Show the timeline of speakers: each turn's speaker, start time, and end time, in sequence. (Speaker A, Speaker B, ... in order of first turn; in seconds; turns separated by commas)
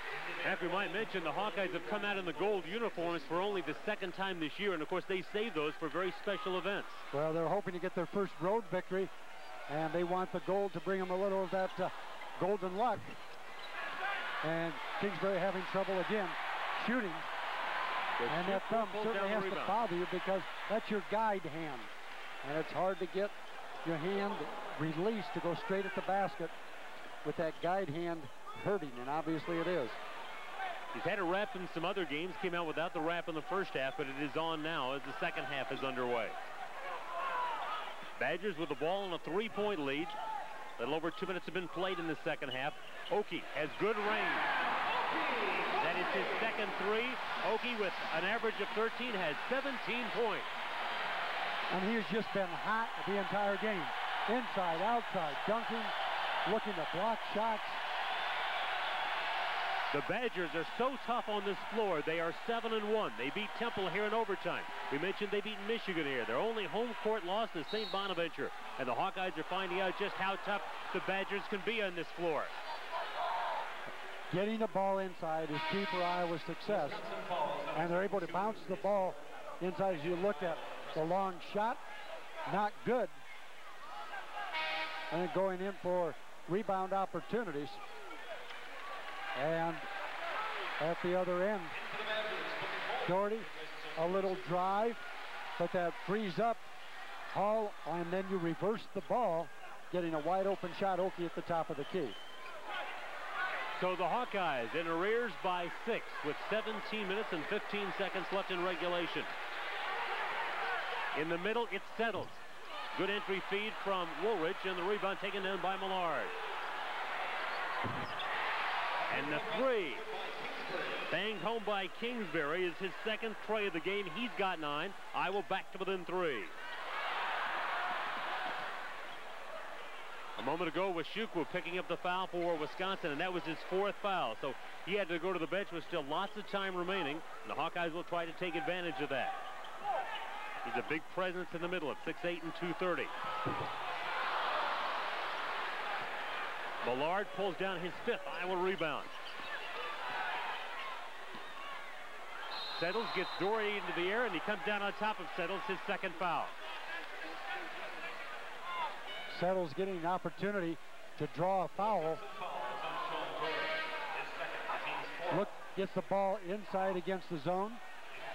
Speaker A: 0.4-7.0, Speaker B: 7.1-9.1, Speaker B: 9.7-13.1, Speaker B: 14.4-17.2, Speaker A: 18.2-19.8, Speaker B: 18.3-21.9, Speaker B: 22.4-23.3, Speaker B: 23.8-26.5, Speaker B: 27.2-30.0, Speaker A: 30.9-36.4, Speaker A: 38.2-40.2, Speaker A: 40.8-44.5, Speaker A: 45.8-50.5, Speaker B: 51.7-55.9, Speaker B: 56.4-57.8, Speaker A: 59.9-72.5, Speaker B: 74.3-77.1, Speaker B: 77.7-81.8, Speaker B: 82.5-83.2, Speaker B: 85.1-87.8, Speaker B: 89.3-89.9, Speaker B: 90.8-91.8, Speaker B: 93.0-95.0, Speaker B: 95.6-96.6, Speaker B: 97.3-102.2, Speaker A: 103.7-109.3, Speaker A: 111.1-112.4, Speaker A: 112.9-116.3, Speaker A: 119.1-120.0, Speaker A: 121.1-126.5, Speaker A: 130.4-139.4, Speaker A: 140.6-143.1, Speaker A: 146.8-149.1, Speaker A: 152.7-156.5, Speaker B: 159.3-162.2, Speaker B: 165.3-167.8